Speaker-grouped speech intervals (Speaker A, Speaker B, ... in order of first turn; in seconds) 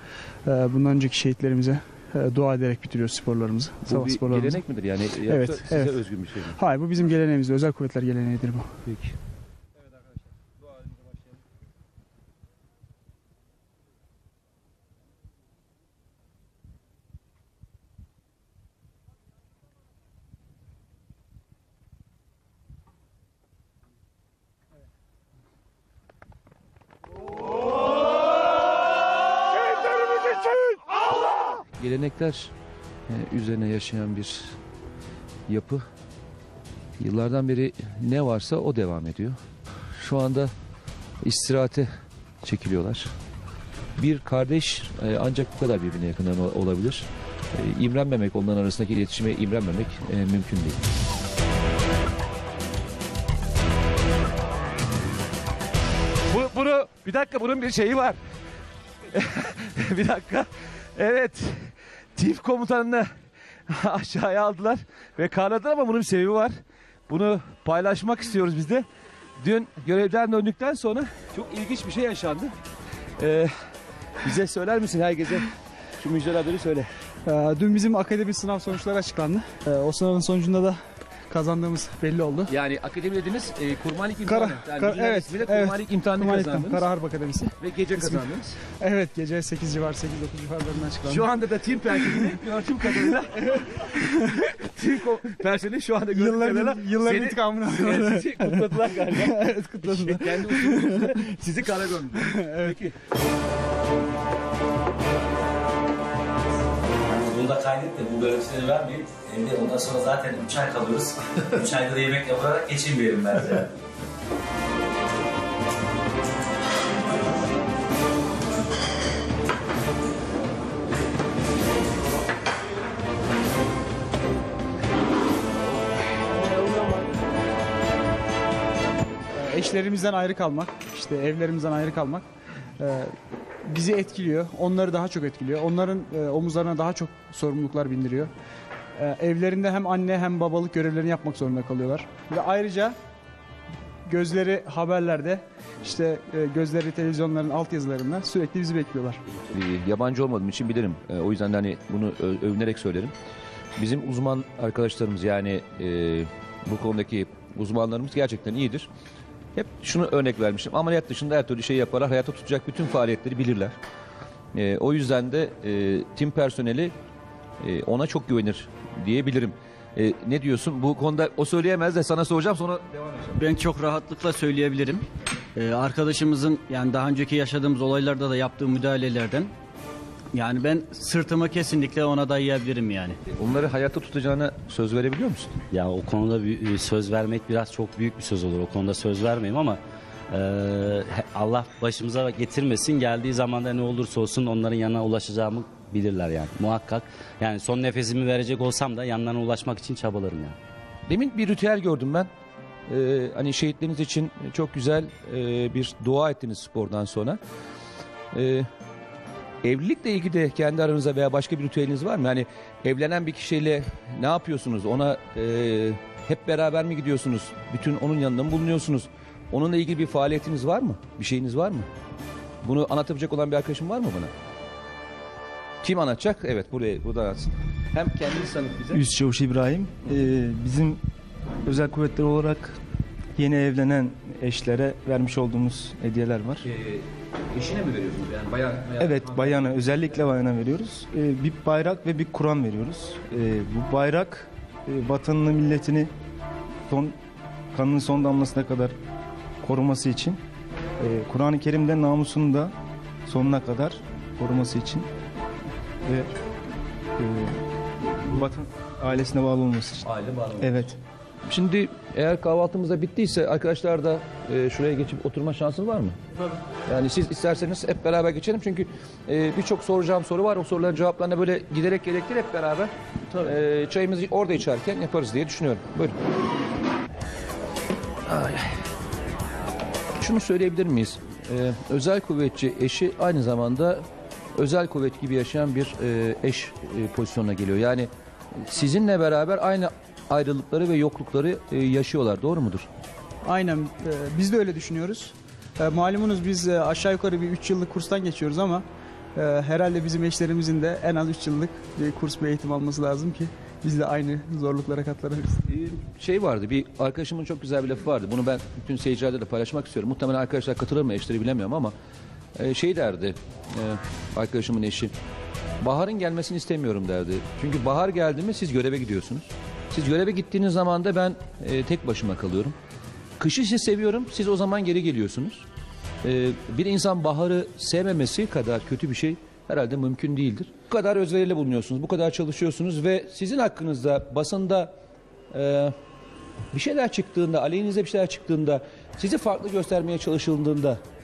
Speaker A: 0.4-4.6, 5.3-6.0, 6.6-8.8, 77.2-82.5, 84.2-88.3, 88.8-91.3, 92.0-92.4, 93.4-94.5, 96.1-101.3, 102.1-102.9, 129.3-132.2, 132.8-138.3, 139.0-142.9, 144.1-149.2, 293.4-305.7
Speaker B: 3.9-6.6, 8.9-9.1, 31.8-32.5, 33.1-34.6, 35.5-35.8, 37.0-39.4, 40.0-40.5, 41.2-41.9, 42.4-43.1, 44.0-50.8, 56.3-58.2, 59.1-63.1, 63.7-66.6, 67.1-68.8, 69.4-72.5, 73.2-73.5, 74.2-76.9, 82.5-86.8, 87.6-88.6, 91.0-102.9, 149.5-153.1, 153.8-158.9, 159.6-163.7, 164.5-166.9, 167.6-173.3, 183.3-185.6, 201.1-202.3, 202.9-207.4, 208.3-208.7, 209.6-221.9, 222.6-224.3, 225.8-229.0, 236.6-239.8, 260.1-260.7, 261.5-266.2, 266.9-276.1, 278.3-278.8, 280.2-292.9, 305.7-311.9, 312.6-315.1, 315.8-322.8, 323.4-325.6, 326.2-334.9, 335.5-335.9, 336.7-341.0
Speaker C: 107.1-113.7, 185.7-189.8, 190.3-200.6
Speaker D: 173.3-175.0, 175.6-179.5, 180.3-183.2
Speaker E: 228.9-231.0, 231.7-232.8, 233.4-236.7, 239.0-246.1, 246.9-247.2, 247.7-248.9, 249.6-250.4, 251.0-252.7, 253.2-255.1, 256.0-256.3, 257.2-260.1, 260.6-261.0